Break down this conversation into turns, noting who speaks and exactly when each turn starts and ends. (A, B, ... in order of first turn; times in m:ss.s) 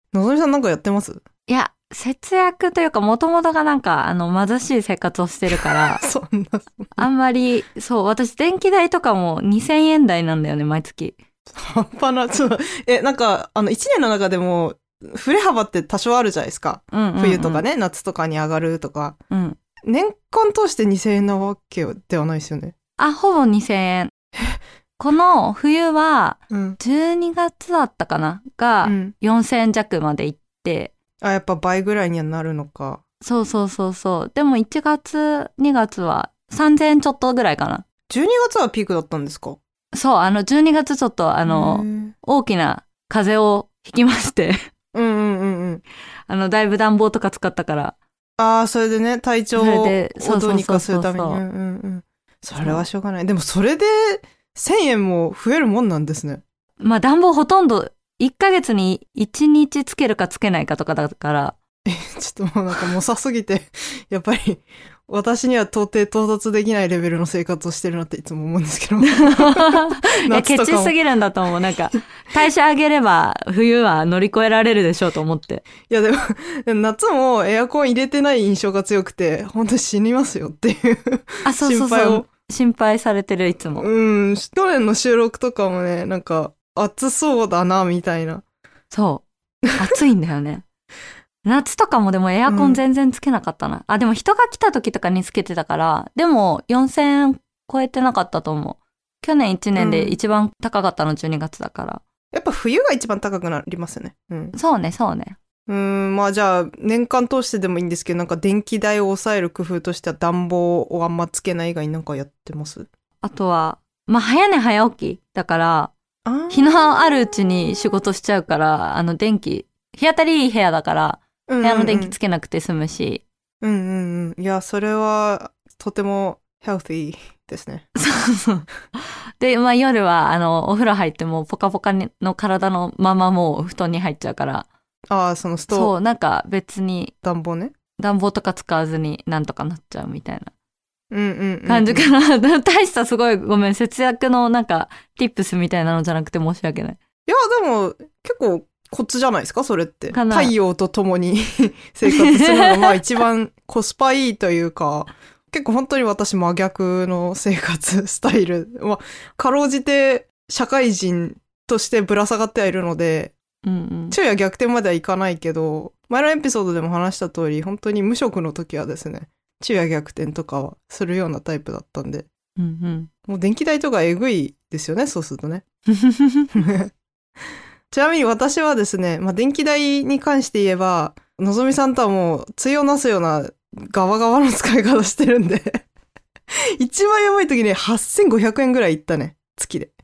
0:00.1-0:01.2 A
0:01.5-0:06.0 B
0:05.5-0:07.1 A
0:07.0-0:11.2 B
0:11.5-0:19.2 A
0:16.9-0:17.6 B
0:19.3-0:19.6 B
0:19.8-0:22.8 A
0:23.0-0:24.1 B
0:25.0-0:30.9 B
0:26.5-0:26.8 A
0:28.8-0:29.2 A
0:31.2-0:33.0 A
0:33.2-0:37.8 B
0:38.1-0:39.6 A
0:39.9-0:44.6 B
0:41.5-0:42.2 A
0:44.9-0:45.8 A
0:46.3-0:48.0 B
0:48.4-0:56.4 A
0:49.6-0:51.4 B
0:52.6-0:52.8 B
0:56.8-1:01.6 B
1:01.9-1:11.0 A
1:09.1-1:15.6 B
1:15.9-1:22.3 A
1:21.4-1:23.9 B
1:23.8-1:28.4 A
1:28.9-1:29.2 B
1:29.8-1:30.6 B
1:31.4-1:42.0 B
1:32.5-1:32.8 A
1:39.8-1:40.2 A
1:42.3-1:44.6 A
1:44.5-1:45.4 B
1:45.7-1:52.9 A
1:53.2-1:55.9 B
1:56.2-1:57.8 A
1:56.5-2:03.2 B
2:01.5-2:02.2 A
2:03.6-2:07.9 A
2:08.0-2:08.7 B
2:09.4-2:14.7 B
2:15.1-2:15.9 A
2:15.7-2:17.1 B
2:17.2-2:17.8 A
2:18.0-2:20.5 B
2:21.1-2:22.1 A
2:21.7-2:27.0 B
2:27.3-2:43.3 A
2:30.1-2:30.5 B
2:32.1-2:33.0 B
2:43.6-2:44.2 B
2:44.1-2:52.3 A
2:52.6-2:53.1 B
2:53.3-2:55.6 A
2:55.9-2:56.5 B
2:56.5-2:56.9 A
2:57.9-3:05.8 A
3:06.8-3:09.9 A